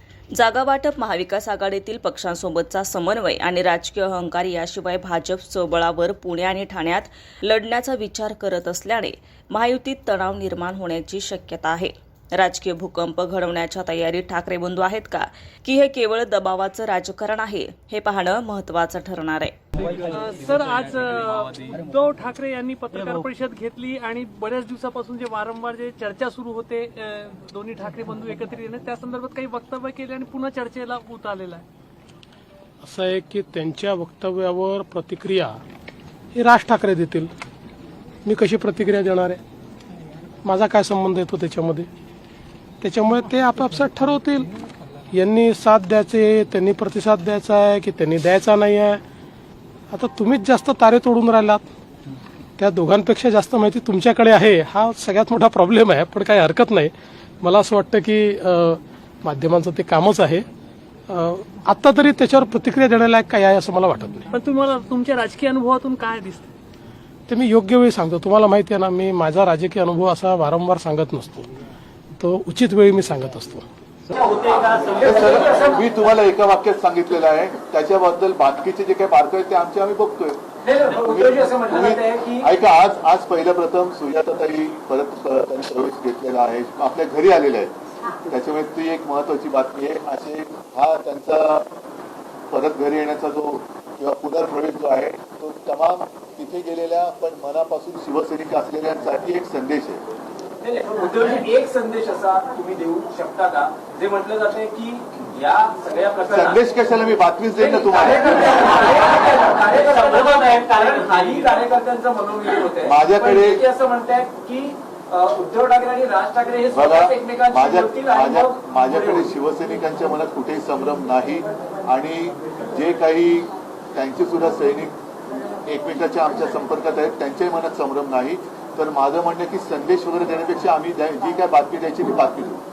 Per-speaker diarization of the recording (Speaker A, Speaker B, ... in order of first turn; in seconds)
Speaker A: 0.3-19.6
Speaker B: 19.8-31.6, 64.3-66.5
Speaker C: 32.8-35.6, 36.3-37.3, 38.2-39.4, 40.4-41.9, 42.8-44.5, 45.1-49.0, 49.9-51.7, 52.6-60.5, 61.1-64.3, 67.3-71.5, 72.2-73.7
Speaker D: 74.1-75.8, 80.7-82.5, 100.6-106.5, 107.6-119.2
Speaker E: 74.7-80.4, 81.0-91.7, 92.5-100.0, 106.3-108.7, 112.8-113.7, 116.7-125.0, 125.7-132.6